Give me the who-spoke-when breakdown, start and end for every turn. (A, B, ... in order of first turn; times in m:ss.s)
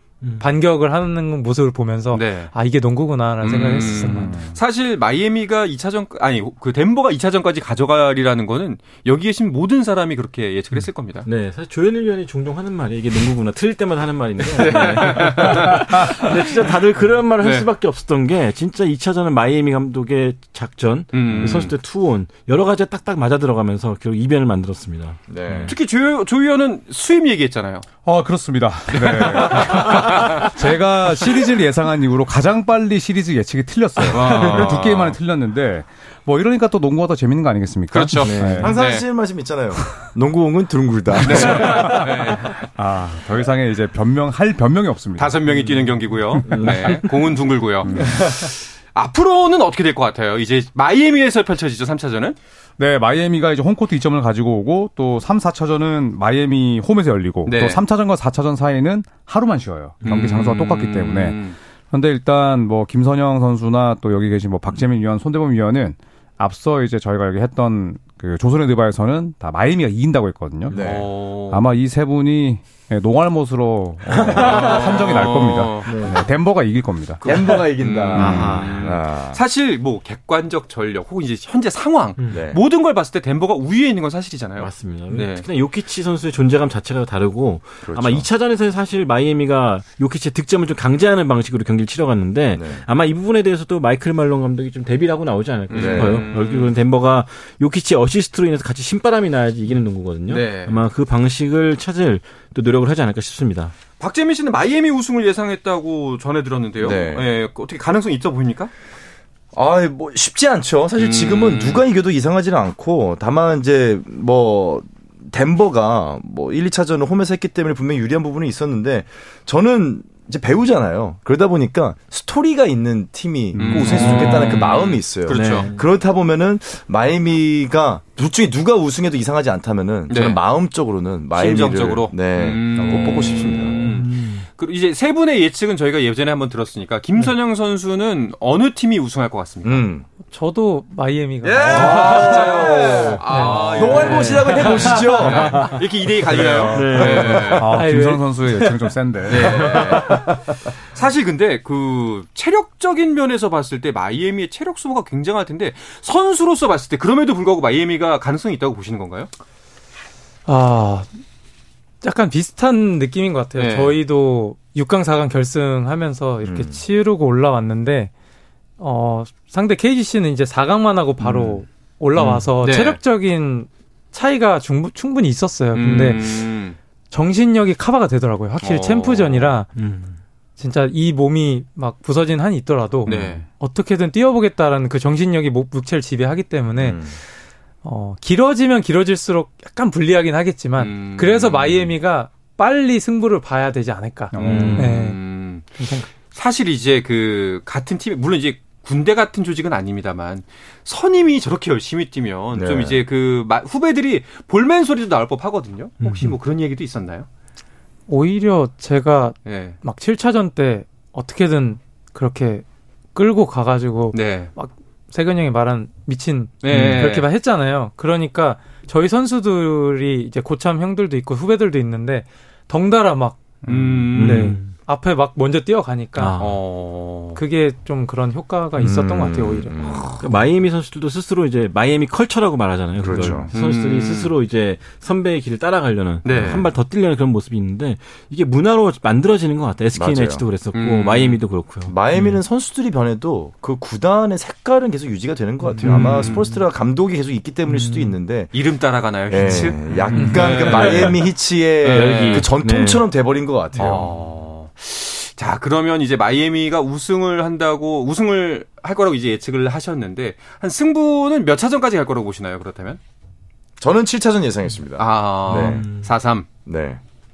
0:00.4-0:04.3 A
0:02.1-0:02.5 B
0:03.4-0:11.3 B
0:04.0-0:04.6 C
0:11.2-0:25.2 D
0:14.4-0:16.3 B
0:17.4-0:17.7 B
0:21.1-0:21.7 B
0:25.3-0:25.8 E
0:25.4-0:25.7 C
0:25.6-0:27.9 B
0:28.0-0:38.7 C
0:28.9-0:30.5 B
0:34.1-0:35.2 B
0:37.9-0:39.0 B
0:38.2-0:38.8 D
0:38.6-0:42.4 E
0:41.2-0:42.6 B
0:41.2-0:45.4 C
0:45.2-0:52.4 B
0:45.5-0:47.1 D
0:46.4-0:47.1 C
0:47.8-0:48.5 C
0:52.8-1:10.7 C
0:57.4-0:57.8 B
1:00.0-1:01.6 B
1:10.7-1:11.1 E
1:10.7-1:11.6 B
1:11.5-1:17.2 C
1:14.3-1:16.0 B
1:15.8-1:16.2 D
1:17.2-1:19.4 E
1:17.4-1:25.5 B
1:18.1-1:18.9 D
1:18.2-1:18.6 C
1:22.2-1:22.4 D
1:22.3-1:22.6 E
1:24.6-1:43.7 D
1:27.8-1:28.3 E
1:32.5-1:32.8 E
1:35.7-1:36.7 B
1:35.7-1:36.3 E
1:40.3-1:40.8 B
1:44.0-1:48.7 B
1:46.8-1:47.2 E
1:49.5-2:13.8 E
1:51.0-1:51.8 B
2:03.5-2:04.4 C
2:03.6-2:05.7 B
2:03.9-2:04.6 D
2:05.3-2:05.9 D
2:10.1-2:10.4 B
2:11.3-2:19.9 B
2:12.8-2:13.5 C
2:13.8-2:14.5 D
2:19.6-2:20.0 E
2:20.3-2:22.6 A
2:21.4-2:27.7 B
2:21.6-2:25.8 E
2:23.2-2:23.5 A
2:23.6-2:25.8 D
2:26.3-2:30.0 C
2:26.4-2:26.7 E
2:26.7-2:27.7 D
2:27.7-2:28.3 A
2:29.3-2:30.3 B
2:30.9-2:39.3 B
2:40.5-2:41.1 A
2:42.0-2:48.1 A
2:43.6-2:43.9 B
2:46.4-2:46.8 E
2:48.8-2:56.3 A
2:52.2-2:52.5 D
2:52.5-2:53.0 B
2:55.7-2:56.8 B
2:57.1-2:59.7 A
2:58.6-2:59.5 B
2:59.7-3:00.2 D
3:00.6-3:07.0 A
3:03.0-3:03.4 B
3:06.8-3:07.2 E
3:07.8-3:16.1 A
3:10.8-3:11.9 B
3:14.3-3:14.8 C
3:14.4-3:15.7 B
3:14.4-3:15.0 D
3:16.3-3:27.3 B
3:22.5-3:23.0 E
3:26.0-3:26.4 D
3:28.1-3:43.4 A
3:29.4-3:29.8 B
3:34.1-3:34.5 B
3:36.6-3:37.2 B
3:36.7-3:37.1 D
3:43.6-3:44.2 C
3:43.6-3:44.5 B
3:44.1-3:44.7 D
3:44.2-3:46.3 A
3:46.2-3:46.6 D
3:46.4-3:47.4 B
3:47.3-3:49.7 A
3:48.8-3:50.2 E
3:50.1-4:02.4 D
3:53.0-3:53.5 E
3:53.5-3:54.3 B
3:56.2-3:56.6 B
3:56.3-3:56.7 E
3:59.9-4:00.5 E
4:00.7-4:01.4 B
4:01.8-4:08.5 E
4:05.8-4:06.6 D
4:05.8-4:06.4 B
4:07.7-4:08.2 D
4:08.5-4:11.3 B
4:09.3-4:14.1 E
4:10.1-4:11.2 D
4:10.2-4:10.6 A
4:11.8-4:12.5 B
4:11.9-4:13.1 D
4:13.8-4:23.0 B
4:23.8-4:25.9 E
4:25.0-4:26.5 B
4:25.5-4:26.1 D
4:26.6-4:27.0 E